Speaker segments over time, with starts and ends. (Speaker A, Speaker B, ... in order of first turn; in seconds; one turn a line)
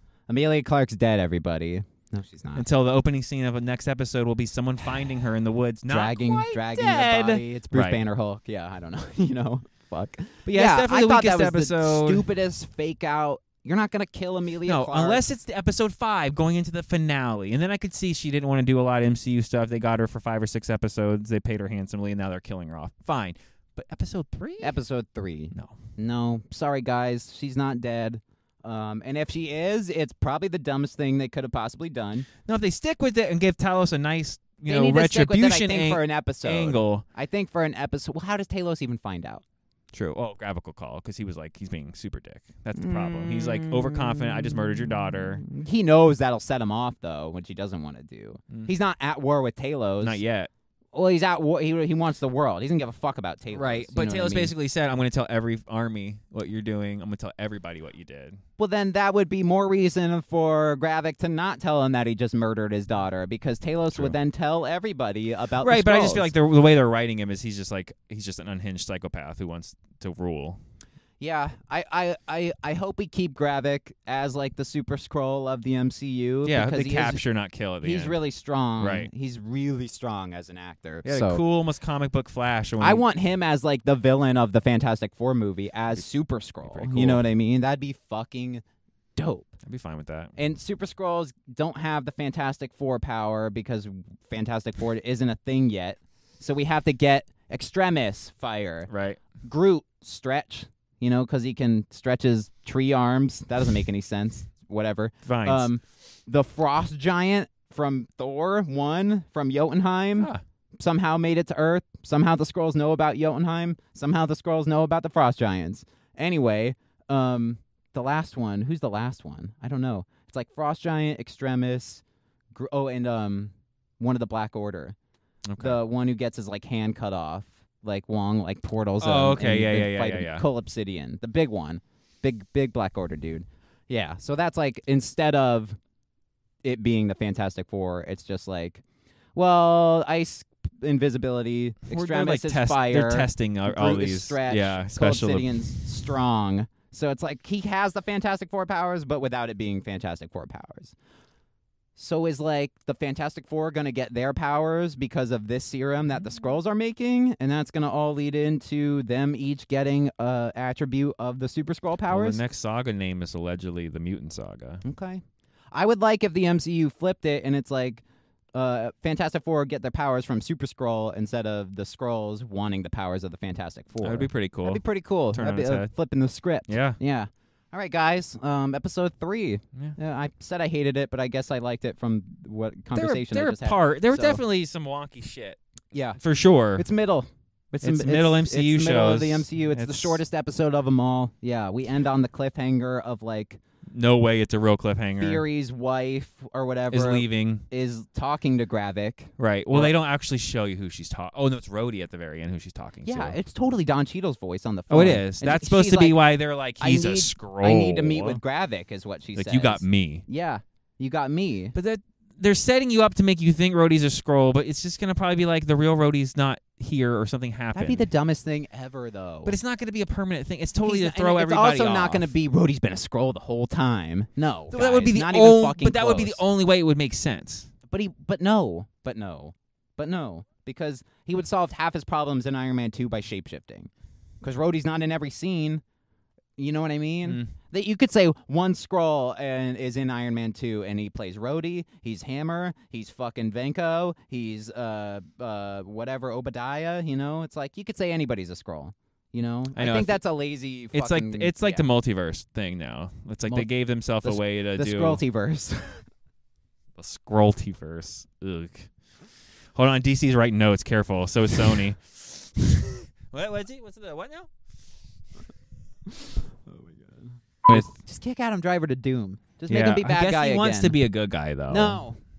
Speaker A: 0.3-2.6
Speaker B: 2.5-8.0
Speaker A: 5.9-15.2
Speaker B: 10.5-12.3
Speaker B: 14.6-24.8
Speaker A: 24.6-32.3
Speaker B: 32.5-37.0
Speaker A: 34.7-39.4
Speaker B: 39.9-45.4
Speaker A: 42.8-50.2
Speaker B: 50.0-50.5
Speaker A: 50.9-54.5
Speaker B: 53.5-58.4
Speaker A: 58.6-66.3
Speaker B: 65.6-70.6
Speaker A: 71.2-77.2
Speaker B: 76.5-78.2
Speaker A: 77.8-81.4
Speaker B: 78.8-79.1
Speaker B: 81.0-83.0
Speaker A: 82.8-88.6
Speaker B: 86.6-87.2
Speaker A: 89.2-89.5
Speaker B: 89.7-90.3
Speaker A: 90.4-98.9
Speaker B: 98.9-99.2
Speaker A: 99.4-125.0
Speaker B: 105.3-105.7
Speaker B: 125.5-125.8
Speaker A: 125.6-135.8
Speaker B: 129.0-130.4
Speaker A: 136.6-138.8
Speaker A: 139.3-151.0
Speaker B: 141.9-145.7
Speaker A: 152.0-162.4
Speaker B: 162.1-164.8
Speaker A: 164.8-168.0
Speaker A: 168.5-184.4
Speaker B: 174.0-175.9
Speaker B: 176.7-177.0
Speaker B: 182.9-185.6
Speaker A: 185.9-186.2
Speaker B: 186.2-186.8
Speaker A: 186.8-193.6
Speaker B: 187.8-190.2
Speaker B: 193.9-195.4
Speaker A: 195.2-199.9
Speaker B: 196.9-197.7
Speaker B: 199.4-203.4
Speaker A: 203.1-206.2
Speaker B: 204.9-208.4
Speaker A: 206.8-211.8
Speaker B: 209.3-210.2
Speaker B: 211.7-218.1
Speaker A: 217.7-219.6
Speaker B: 219.4-222.3
Speaker A: 220.8-226.4
Speaker B: 224.7-227.7
Speaker A: 227.9-233.9
Speaker A: 234.4-235.8
Speaker A: 236.6-251.9
Speaker B: 237.3-237.5
Speaker B: 249.8-250.2
Speaker B: 250.9-255.2
Speaker A: 254.2-256.0
Speaker B: 257.0-258.9
Speaker B: 259.8-264.5
Speaker A: 266.1-271.0
Speaker B: 269.7-272.0
Speaker A: 271.7-272.2